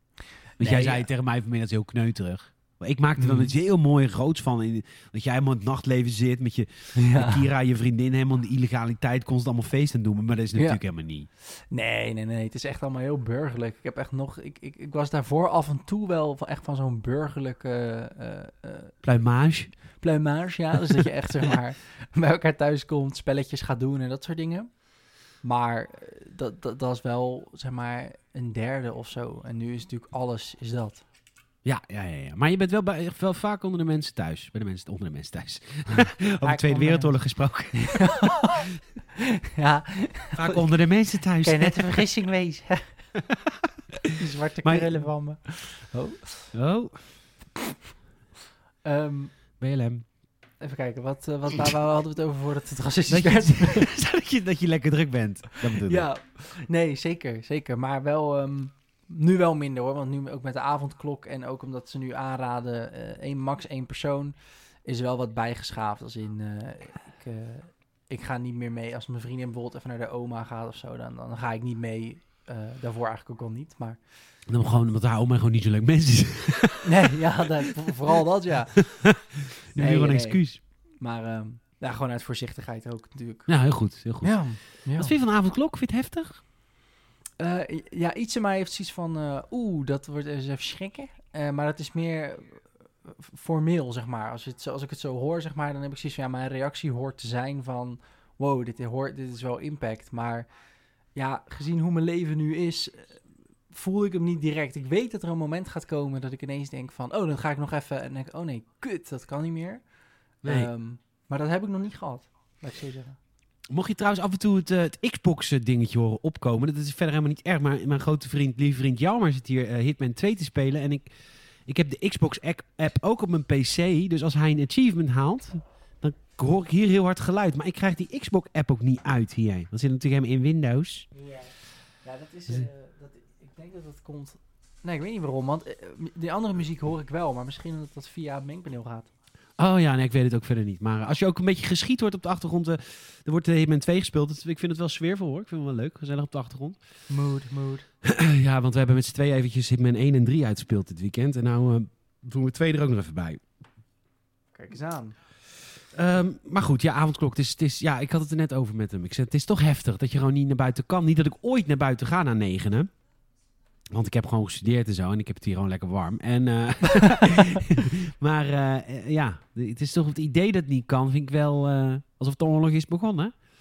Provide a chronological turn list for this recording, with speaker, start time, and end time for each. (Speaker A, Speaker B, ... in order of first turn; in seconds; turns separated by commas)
Speaker A: 0.6-11.3, Speaker B: 0.6-1.1, Speaker B: 3.2-3.5, Speaker B: 7.0-7.4, Speaker B: 11.4-18.9, Speaker A: 19.0-19.8, Speaker B: 20.0-24.7, Speaker B: 25.4-31.0, Speaker A: 31.6-38.6, Speaker B: 36.4-37.2, Speaker B: 37.8-40.6, Speaker A: 40.4-42.1, Speaker B: 41.4-43.0, Speaker A: 44.0-45.0, Speaker B: 44.1-46.5, Speaker A: 46.5-47.1, Speaker B: 48.8-49.3, Speaker A: 49.6-50.0, Speaker B: 50.6-53.9, Speaker A: 53.1-56.1, Speaker B: 55.7-74.0, Speaker A: 74.5-77.1, Speaker B: 76.8-79.1, Speaker A: 78.8-80.6, Speaker B: 79.8-83.5, Speaker A: 83.5-86.4, Speaker B: 84.2-85.1, Speaker B: 87.4-100.5, Speaker B: 101.1-109.8, Speaker A: 110.4-110.7, Speaker B: 110.4-113.2, Speaker A: 113.7-121.1, Speaker A: 121.7-131.1, Speaker B: 131.1-139.1, Speaker A: 139.6-146.8, Speaker B: 147.1-147.9, Speaker A: 148.0-153.4, Speaker B: 154.5-155.1, Speaker A: 155.9-162.9, Speaker A: 163.9-173.3